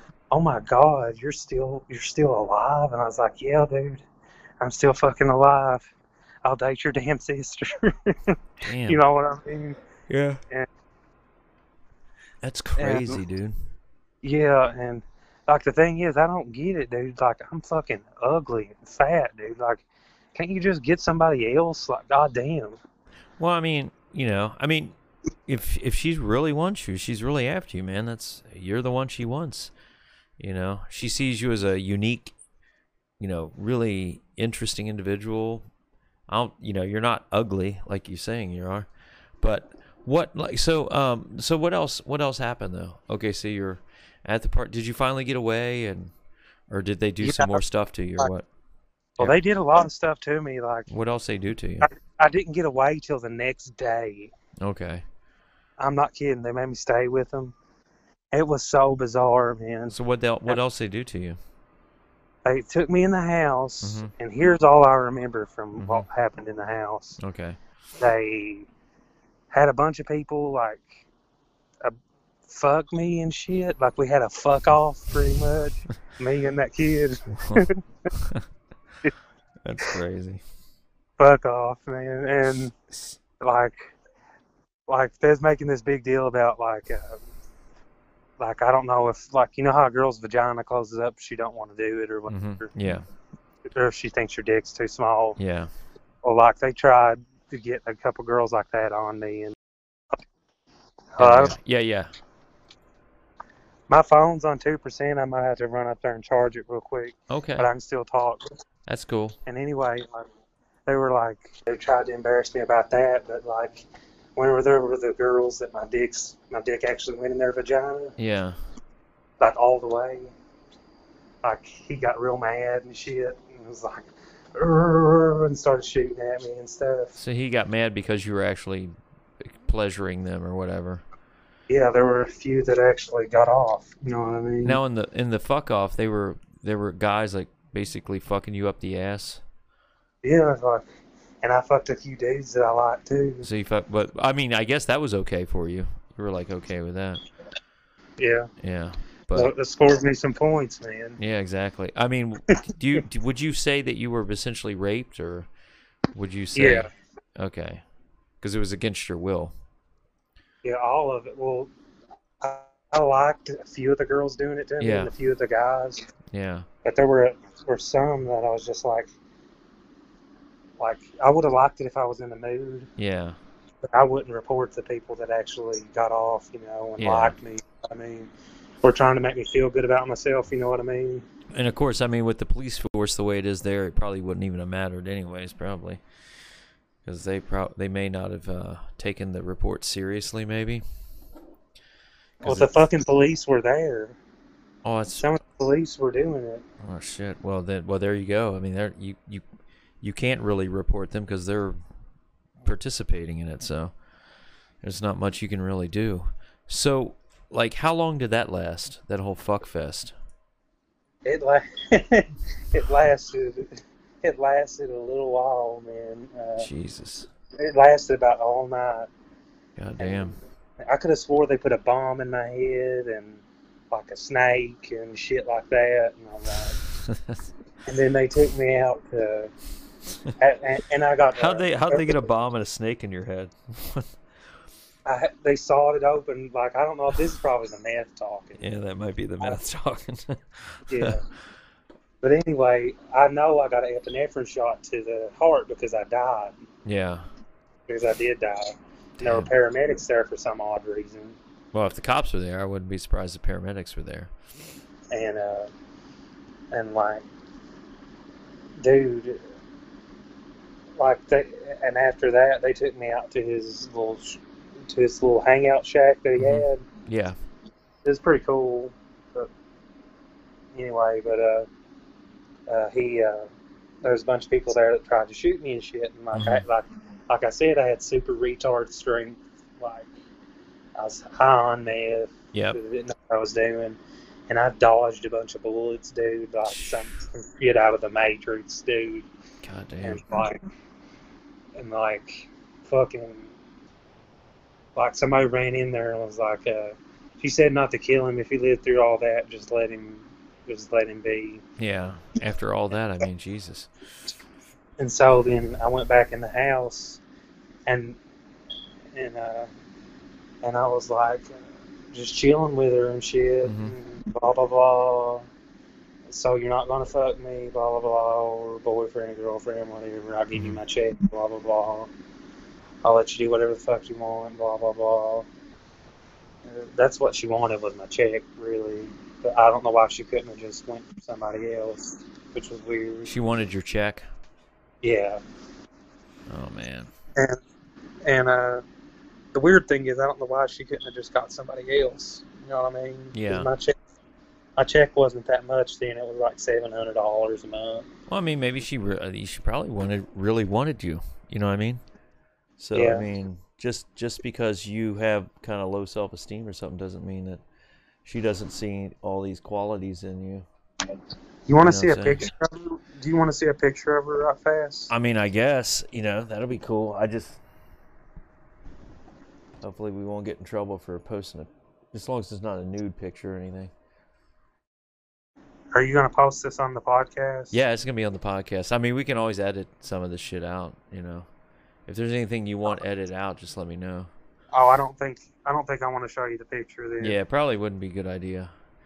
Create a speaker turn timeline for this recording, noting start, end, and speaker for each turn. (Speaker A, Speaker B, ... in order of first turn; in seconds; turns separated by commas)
Speaker A: 0.3-4.0, Speaker A: 4.6-5.9, Speaker A: 6.4-9.8, Speaker B: 8.6-9.0, Speaker B: 10.1-10.4, Speaker B: 12.4-13.6, Speaker A: 12.8-13.2, Speaker A: 14.2-22.8, Speaker B: 23.4-24.9, Speaker B: 25.5-29.7, Speaker B: 30.4-32.3, Speaker B: 33.2-35.7, Speaker B: 36.3-38.9, Speaker B: 39.4-46.1, Speaker B: 46.7-48.5, Speaker A: 47.2-47.6, Speaker A: 49.2-50.9, Speaker B: 50.9-51.9, Speaker A: 51.8-54.3, Speaker B: 54.6-55.0, Speaker A: 55.8-57.5, Speaker A: 58.3-59.9, Speaker B: 59.9-61.4, Speaker A: 62.4-67.2, Speaker B: 63.8-64.1, Speaker B: 65.8-66.0, Speaker B: 67.2-67.6, Speaker A: 68.0-68.7, Speaker A: 69.5-71.0, Speaker A: 72.5-78.1, Speaker B: 77.3-78.4, Speaker B: 79.6-80.4, Speaker A: 81.2-82.7, Speaker A: 83.4-83.9, Speaker A: 84.9-87.2, Speaker A: 88.4-92.7, Speaker B: 92.3-93.0, Speaker A: 93.7-95.4, Speaker B: 95.4-95.7, Speaker A: 96.2-99.5, Speaker A: 101.1-101.6, Speaker B: 101.2-102.1, Speaker A: 103.9-108.5, Speaker B: 107.3-107.7, Speaker B: 108.9-109.4, Speaker A: 109.5-110.2, Speaker A: 110.8-113.8, Speaker A: 114.3-118.1, Speaker B: 118.2-118.5, Speaker A: 119.4-120.3, Speaker A: 121.4-127.2, Speaker B: 127.2-131.0, Speaker A: 131.7-134.8, Speaker B: 134.6-139.4, Speaker A: 140.2-140.8, Speaker A: 141.4-143.4, Speaker B: 143.4-147.2, Speaker A: 148.2-148.5, Speaker B: 148.6-149.5, Speaker A: 149.3-151.2, Speaker B: 151.2-155.5, Speaker B: 156.1-157.8, Speaker A: 156.5-156.9, Speaker B: 158.4-159.5, Speaker A: 160.6-161.7, Speaker A: 162.4-166.1, Speaker B: 164.8-165.1, Speaker B: 166.3-166.7, Speaker A: 166.8-169.1, Speaker A: 170.8-172.9, Speaker B: 173.0-173.4, Speaker A: 173.8-178.3, Speaker B: 177.0-177.3, Speaker A: 178.8-181.3, Speaker B: 181.5-186.0, Speaker B: 187.0-190.8, Speaker B: 192.4-192.7, Speaker A: 192.4-194.2, Speaker B: 194.8-195.3, Speaker A: 195.2-196.6, Speaker B: 196.8-199.4, Speaker B: 200.0-201.8, Speaker B: 202.6-203.9, Speaker B: 204.8-210.1, Speaker A: 211.2-216.7, Speaker B: 216.6-217.3, Speaker A: 217.6-219.1, Speaker B: 219.8-220.4, Speaker A: 220.0-226.8, Speaker B: 227.0-227.5, Speaker A: 227.8-229.5, Speaker A: 230.4-232.2, Speaker B: 231.3-234.1, Speaker A: 235.1-238.7, Speaker B: 238.6-241.2, Speaker A: 240.9-241.2, Speaker A: 242.2-246.6, Speaker B: 246.8-247.2, Speaker A: 247.9-251.4, Speaker B: 249.2-249.5, Speaker B: 251.7-254.3, Speaker A: 255.1-255.7, Speaker A: 256.7-257.2, Speaker A: 258.8-259.4, Speaker A: 261.0-266.9, Speaker B: 266.4-267.4, Speaker A: 268.0-269.5, Speaker A: 270.7-271.7, Speaker A: 272.7-273.5, Speaker A: 274.0-280.1, Speaker B: 276.3-276.6, Speaker A: 281.0-289.3, Speaker B: 282.5-282.8, Speaker B: 286.7-287.0, Speaker B: 289.6-290.4, Speaker A: 290.0-290.6, Speaker A: 291.8-293.5, Speaker A: 294.9-301.6, Speaker B: 301.8-303.9, Speaker A: 305.0-307.2, Speaker A: 307.9-308.2, Speaker A: 309.1-309.7, Speaker A: 310.6-315.5, Speaker B: 313.6-313.9, Speaker A: 316.3-322.1, Speaker B: 320.5-320.8, Speaker A: 323.0-325.5, Speaker A: 326.7-333.3, Speaker B: 333.3-334.2, Speaker A: 335.0-335.4, Speaker B: 336.5-337.1, Speaker A: 337.4-337.6, Speaker A: 338.2-338.8, Speaker A: 339.5-343.9, Speaker B: 343.3-343.7, Speaker A: 344.8-348.1, Speaker B: 348.3-352.0, Speaker B: 352.8-357.6, Speaker A: 352.9-353.2, Speaker B: 358.2-360.6, Speaker A: 361.7-365.1, Speaker B: 361.8-362.4, Speaker B: 365.1-367.6, Speaker B: 369.8-373.9, Speaker A: 375.9-377.8, Speaker B: 377.7-381.5, Speaker B: 382.1-384.3, Speaker A: 384.7-387.4, Speaker B: 387.2-388.7